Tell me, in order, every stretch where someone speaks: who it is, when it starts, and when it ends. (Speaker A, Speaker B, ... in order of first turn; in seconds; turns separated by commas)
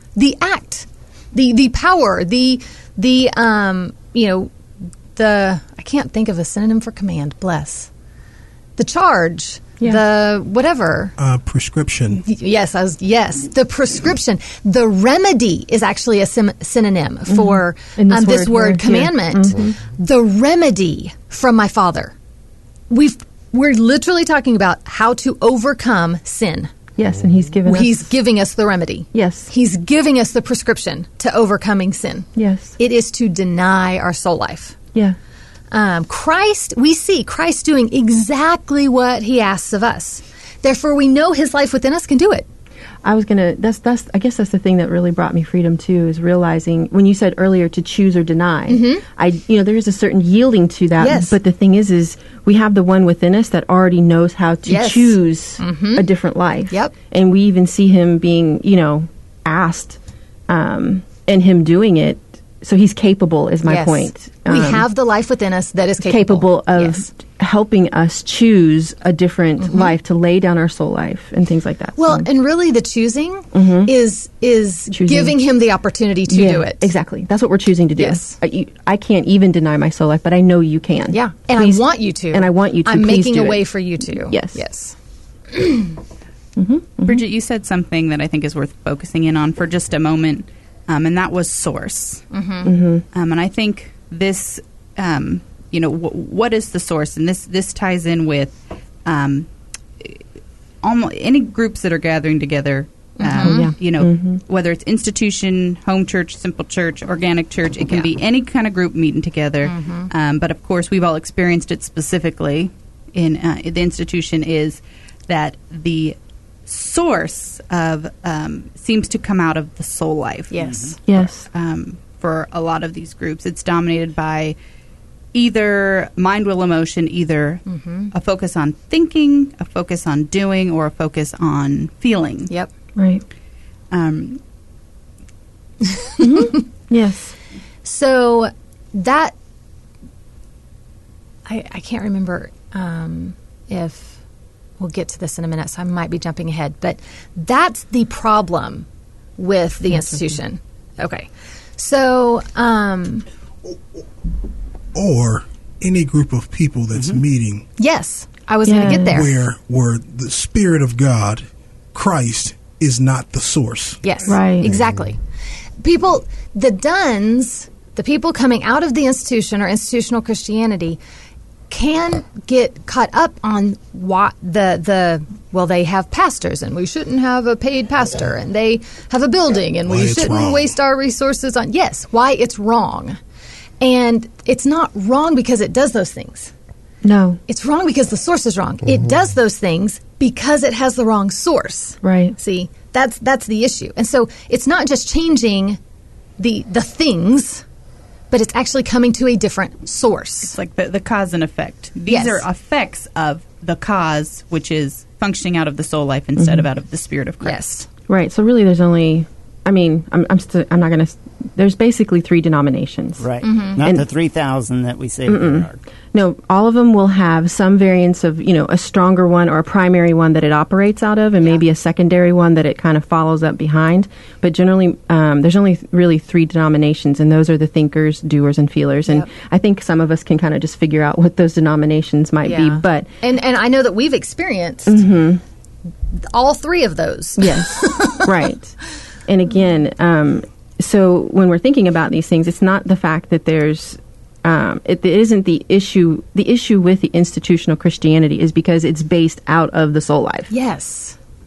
Speaker A: 0.1-4.5, Speaker A: 5.2-7.9, Speaker A: 8.8-11.2, Speaker B: 11.2-12.2, Speaker A: 12.2-22.1, Speaker C: 17.3-19.8, Speaker A: 22.9-26.7, Speaker C: 27.0-28.1, Speaker A: 27.7-34.8, Speaker C: 29.1-29.5, Speaker C: 32.4-32.8, Speaker A: 35.7-42.5, Speaker C: 43.0-60.0, Speaker A: 48.7-49.0, Speaker A: 51.0-51.4, Speaker A: 54.7-56.1, Speaker A: 56.7-56.9, Speaker C: 60.5-64.9, Speaker A: 63.6-67.1, Speaker C: 66.0-72.3, Speaker A: 69.6-70.0, Speaker A: 72.0-76.9, Speaker C: 73.5-73.9, Speaker C: 74.9-75.4, Speaker C: 76.3-84.6, Speaker A: 78.0-78.4, Speaker A: 81.1-85.0, Speaker A: 85.5-85.9, Speaker C: 86.6-87.2, Speaker D: 87.0-92.2, Speaker A: 92.3-92.7, Speaker C: 92.6-93.0, Speaker D: 93.1-99.5, Speaker D: 100.8-124.6, Speaker A: 103.2-103.6, Speaker C: 103.4-104.4, Speaker A: 109.6-110.1, Speaker A: 120.5-121.0, Speaker E: 120.6-121.0, Speaker C: 121.1-121.5, Speaker D: 125.3-132.5, Speaker A: 127.7-128.1, Speaker C: 133.0-133.2, Speaker D: 133.9-134.4, Speaker A: 136.0-136.6, Speaker C: 136.2-137.3, Speaker A: 137.8-139.3, Speaker A: 141.5-144.2, Speaker A: 144.8-148.9, Speaker A: 149.4-153.3, Speaker B: 154.9-157.6, Speaker E: 156.9-157.2, Speaker A: 157.8-159.4, Speaker C: 158.7-159.3, Speaker B: 159.1-164.2, Speaker A: 164.0-165.2, Speaker C: 164.3-164.7, Speaker A: 165.8-171.0, Speaker A: 171.7-183.2, Speaker B: 179.9-180.7, Speaker A: 183.8-186.5, Speaker C: 187.0-187.4, Speaker A: 187.5-195.8, Speaker C: 192.0-192.4, Speaker A: 196.4-197.6, Speaker A: 198.3-200.6, Speaker D: 200.4-207.7, Speaker A: 202.1-202.4, Speaker C: 206.4-206.7, Speaker A: 207.4-207.9, Speaker C: 208.1-213.3, Speaker E: 213.2-215.8, Speaker A: 213.4-213.8, Speaker C: 213.8-214.1, Speaker C: 215.3-233.1, Speaker A: 232.4-235.0, Speaker C: 234.9-235.4, Speaker A: 236.2-238.3, Speaker C: 237.4-238.8, Speaker C: 239.3-250.5, Speaker A: 250.5-251.2